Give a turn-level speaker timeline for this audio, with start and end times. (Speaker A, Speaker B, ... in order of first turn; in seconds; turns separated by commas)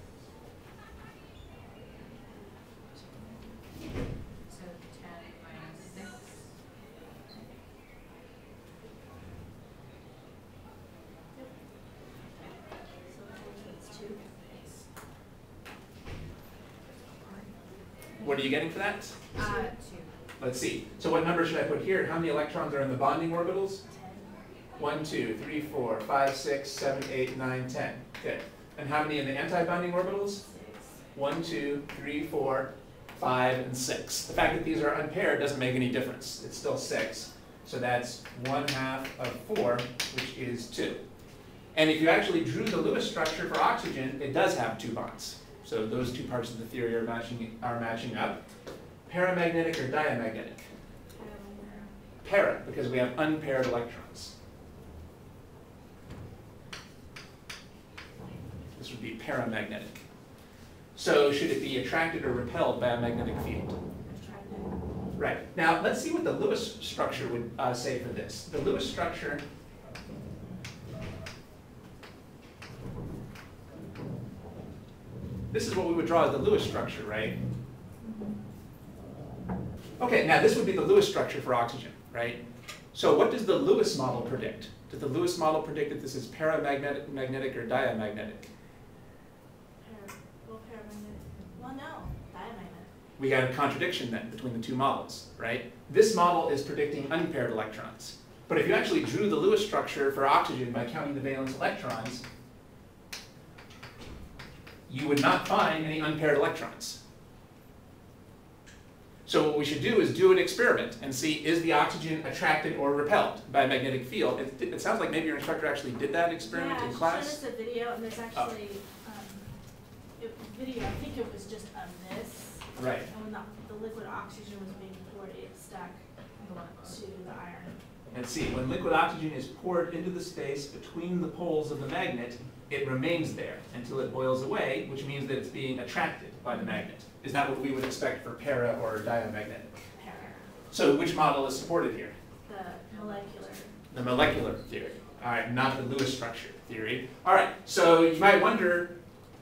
Speaker A: 2.9-3.6, Speaker B: 4.5-6.6, Speaker A: 13.1-14.2, Speaker A: 18.1-18.6, Speaker C: 18.2-19.2, Speaker B: 19.3-20.1, Speaker A: 19.4-19.7, Speaker C: 20.4-23.8, Speaker A: 23.9-24.4, Speaker C: 24.8-30.4, Speaker A: 30.4-31.0, Speaker C: 31.1-41.0, Speaker C: 41.7-48.4, Speaker C: 49.1-50.6, Speaker A: 51.1-52.0, Speaker C: 52.2-54.3, Speaker C: 58.7-59.9, Speaker C: 61.0-63.8, Speaker A: 64.0-64.7, Speaker C: 65.2-69.4, Speaker C: 75.5-77.3, Speaker C: 80.0-82.4, Speaker C: 82.9-88.4, Speaker A: 89.8-92.9, Speaker C: 93.2-102.2, Speaker C: 104.9-107.0, Speaker C: 109.2-117.4, Speaker A: 116.4-126.1, Speaker C: 122.8-123.1, Speaker B: 126.4-127.0, Speaker A: 126.8-127.8, Speaker C: 128.1-139.9, Speaker A: 136.5-136.8, Speaker A: 139.9-140.5, Speaker C: 140.7-142.1, Speaker A: 142.5-143.7, Speaker C: 143.9-148.9